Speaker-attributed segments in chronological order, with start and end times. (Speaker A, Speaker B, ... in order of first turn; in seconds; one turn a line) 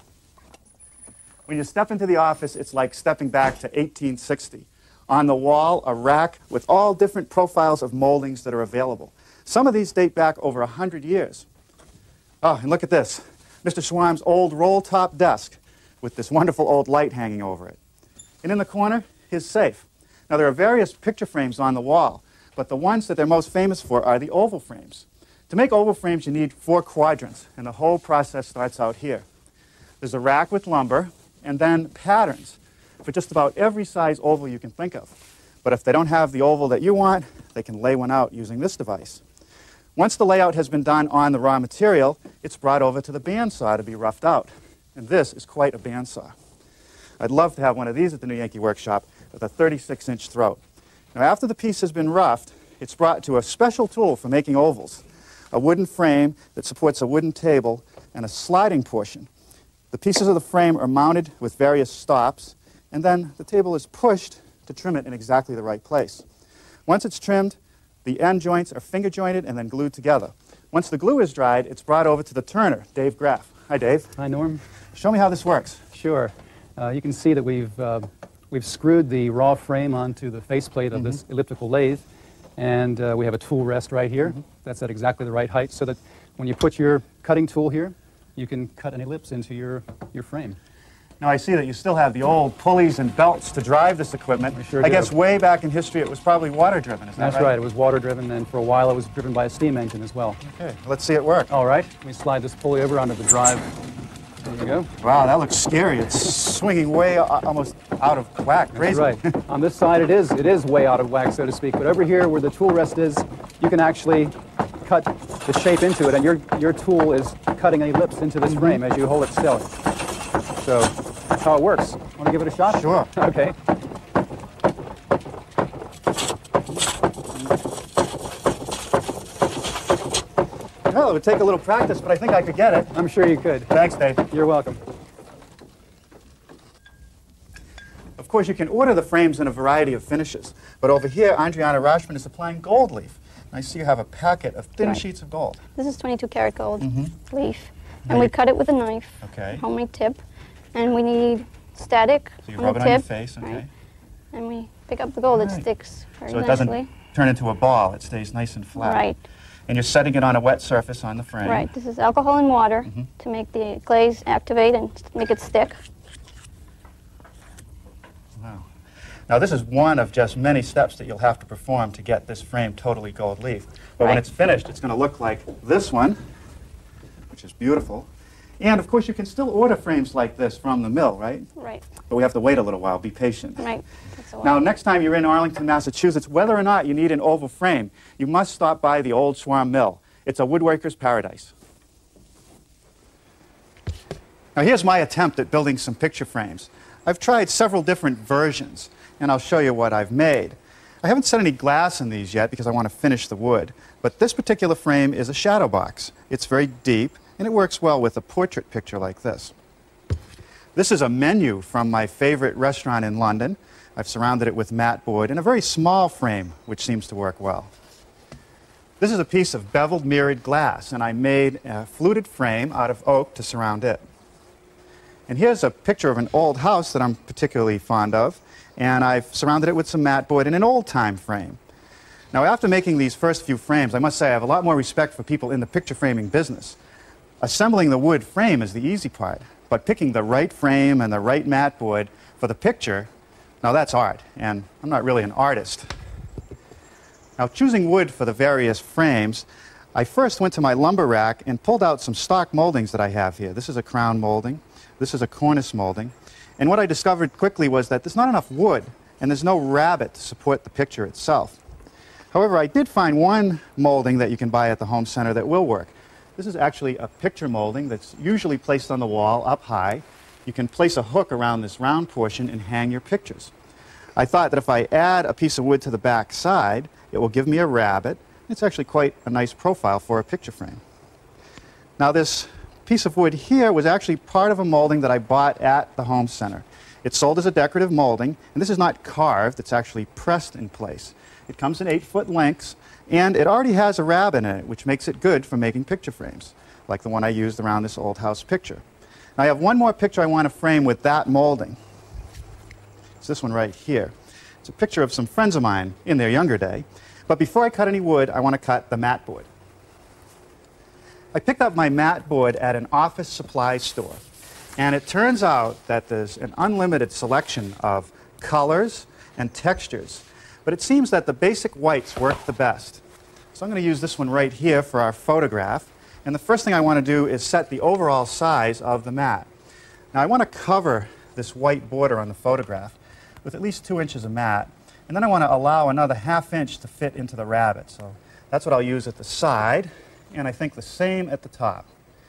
Speaker A: 1.5-11.5
Speaker A: 12.4-17.8
Speaker A: 18.4-29.2
Speaker A: 30.0-39.2
Speaker A: 40.0-46.3
Speaker A: 47.2-50.6
Speaker A: 51.1-59.3
Speaker A: 59.9-66.2
Speaker A: 66.9-74.2
Speaker B: 74.2-74.6
Speaker A: 75.0-75.8
Speaker B: 75.9-82.0
Speaker B: 82.6-90.6
Speaker A: 91.2-97.5
Speaker B: 94.6-95.1
Speaker B: 97.2-100.4
Speaker A: 100.4-101.5
Speaker B: 101.5-103.7
Speaker B: 104.4-104.9
Speaker A: 105.0-109.4
Speaker B: 108.8-119.7
Speaker A: 118.5-118.8
Speaker B: 120.6-123.5
Speaker A: 122.7-123.1
Speaker A: 130.9-133.0
Speaker B: 132.9-133.7
Speaker A: 133.7-134.3
Speaker B: 134.3-134.8
Speaker A: 138.2-145.6
Speaker C: 145.8-150.2
Speaker A: 146.8-147.2
Speaker A: 148.1-148.3
Speaker A: 149.2-149.7
Speaker C: 150.7-153.6
Speaker A: 152.5-153.7
Speaker C: 154.3-156.9
Speaker A: 155.3-155.7
Speaker A: 156.3-159.1
Speaker C: 158.8-159.2
Speaker A: 159.7-161.7
Speaker C: 161.4-165.8
Speaker A: 168.4-168.7
Speaker A: 169.3-176.2
Speaker A: 177.3-178.1
Speaker A: 178.6-183.7
Speaker C: 181.6-181.9
Speaker C: 183.6-184.6
Speaker A: 184.4-191.5
Speaker A: 194.6-209.5
Speaker A: 210.8-217.7
Speaker A: 219.0-224.0
Speaker A: 225.3-231.6
Speaker A: 232.3-236.8
Speaker A: 237.4-243.1
Speaker A: 243.6-245.9
Speaker A: 247.4-261.6
Speaker A: 262.3-273.5
Speaker A: 274.2-280.8
Speaker A: 282.0-298.8
Speaker A: 299.4-301.8
Speaker A: 303.2-309.5
Speaker A: 311.3-314.2
Speaker A: 314.8-323.0
Speaker A: 323.5-329.5
Speaker A: 330.1-341.9